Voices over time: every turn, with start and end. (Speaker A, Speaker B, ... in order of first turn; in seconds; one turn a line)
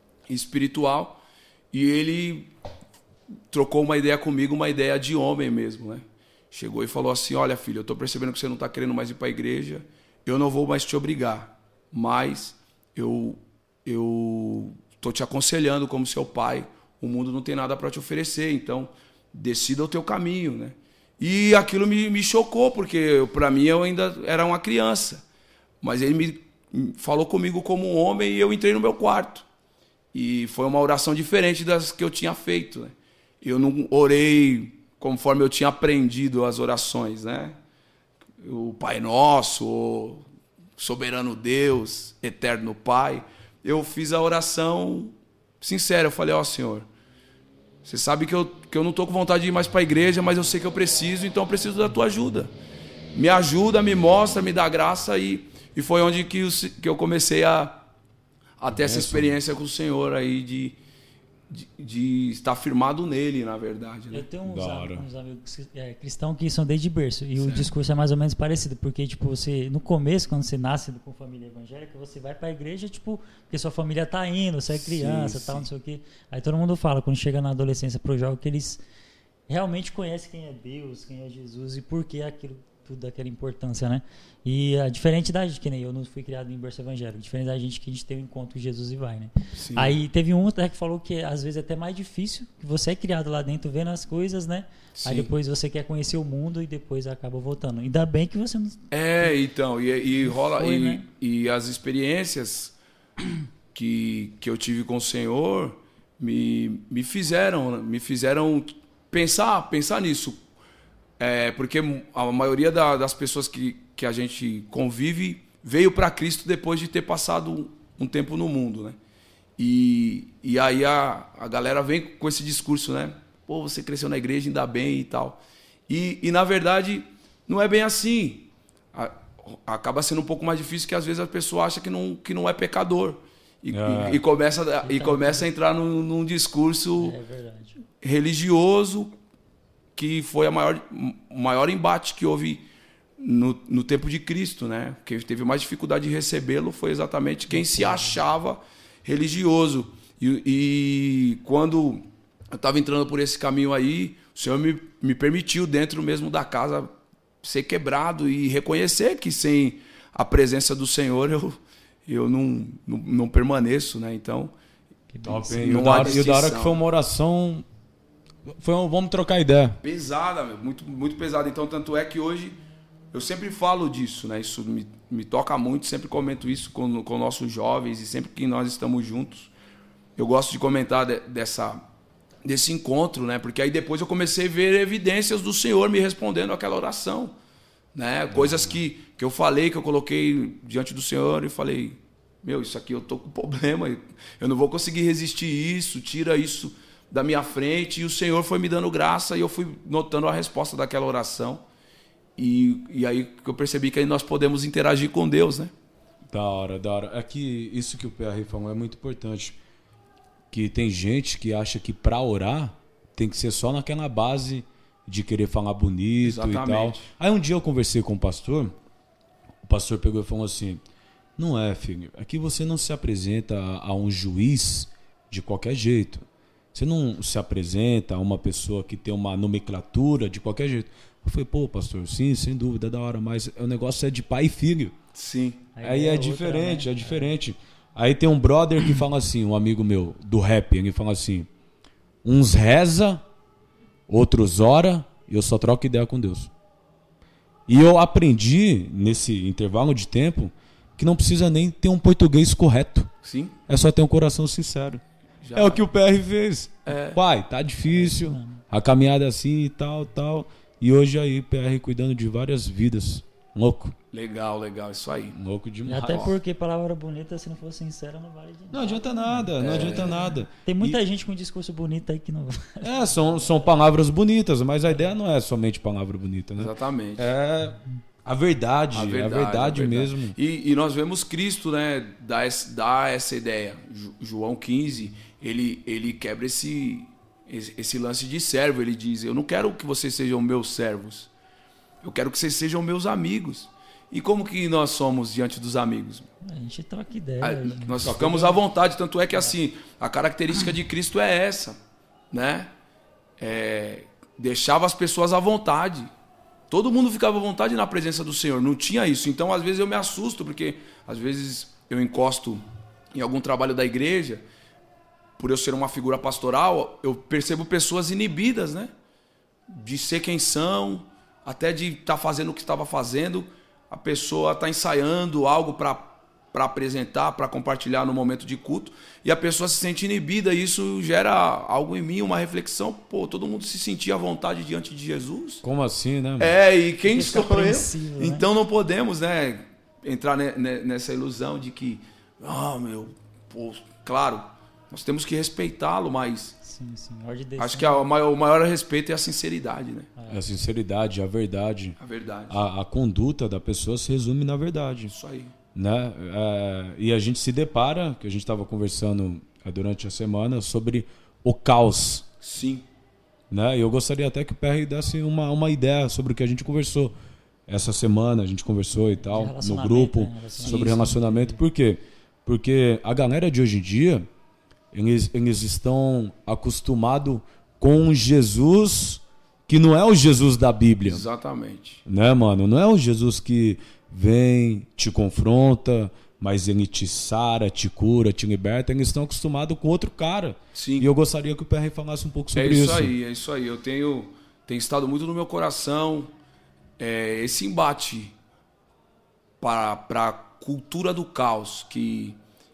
Speaker A: 0.3-2.5
Speaker A: 3.5-25.2
Speaker A: 25.8-29.4
Speaker A: 30.1-37.6
Speaker A: 38.4-40.3
Speaker A: 40.8-46.9
Speaker A: 47.9-52.5
Speaker A: 53.1-57.8
Speaker A: 58.6-60.8
Speaker B: 58.7-59.3
Speaker A: 61.5-64.3
Speaker C: 64.1-78.8
Speaker B: 64.5-65.1
Speaker A: 67.4-67.7
Speaker A: 74.8-75.7
Speaker C: 79.5-99.3
Speaker A: 89.6-90.0
Speaker A: 95.0-95.3
Speaker A: 98.9-103.2
Speaker C: 100.2-101.1
Speaker A: 103.7-110.4
Speaker A: 111.2-119.0
Speaker A: 119.6-137.2
Speaker B: 133.7-134.2
Speaker C: 134.8-135.5
Speaker C: 137.0-137.8
Speaker A: 138.0-139.2
Speaker A: 140.0-142.7
Speaker A: 143.2-156.9
Speaker C: 147.5-148.2
Speaker A: 157.4-164.5
Speaker C: 165.1-165.7
Speaker B: 165.2-167.7
Speaker A: 165.3-166.8
Speaker B: 168.4-169.8
Speaker A: 169.8-172.6
Speaker A: 173.1-179.5
Speaker A: 180.2-181.8
Speaker A: 182.4-187.3
Speaker A: 187.9-201.7
Speaker A: 202.4-205.7
Speaker B: 206.3-209.6
Speaker B: 210.5-218.8
Speaker A: 216.2-217.0
Speaker B: 219.6-220.8
Speaker B: 221.4-234.9
Speaker A: 235.1-235.7
Speaker C: 235.8-237.3
Speaker B: 235.8-241.5
Speaker B: 242.2-243.2
Speaker B: 244.1-246.5
Speaker B: 247.7-253.1
Speaker A: 253.2-253.6
Speaker B: 253.7-255.0
Speaker A: 255.4-255.9
Speaker B: 255.6-263.9
Speaker A: 256.9-257.2
Speaker C: 257.9-258.6
Speaker A: 264.1-265.4
Speaker B: 265.3-266.3
Speaker C: 265.9-273.5
Speaker B: 268.7-271.0
Speaker A: 269.6-270.2
Speaker B: 272.8-280.4
Speaker A: 276.6-277.3
Speaker A: 278.9-291.3
Speaker A: 292.0-296.3
Speaker C: 296.4-298.2
Speaker A: 297.4-301.8
Speaker B: 298.0-298.6
Speaker A: 302.3-302.7
Speaker A: 303.4-306.1
Speaker A: 306.7-314.4
Speaker A: 315.4-318.9
Speaker A: 319.7-335.6
Speaker B: 335.6-336.5
Speaker A: 336.4-346.6
Speaker C: 337.1-338.5
Speaker C: 346.6-348.1
Speaker A: 347.6-350.1
Speaker C: 350.2-350.4
Speaker B: 350.3-352.0
Speaker A: 352.0-352.6
Speaker B: 352.5-355.1
Speaker A: 355.1-355.5
Speaker B: 355.8-362.3
Speaker A: 362.4-362.9
Speaker B: 363.5-367.1
Speaker B: 367.7-374.3
Speaker C: 369.2-371.6
Speaker A: 370.6-371.0
Speaker B: 374.9-381.2
Speaker A: 381.1-382.0
Speaker B: 382.1-393.1
Speaker A: 390.8-391.1
Speaker A: 392.6-396.3
Speaker A: 397.0-398.3
Speaker A: 399.6-402.4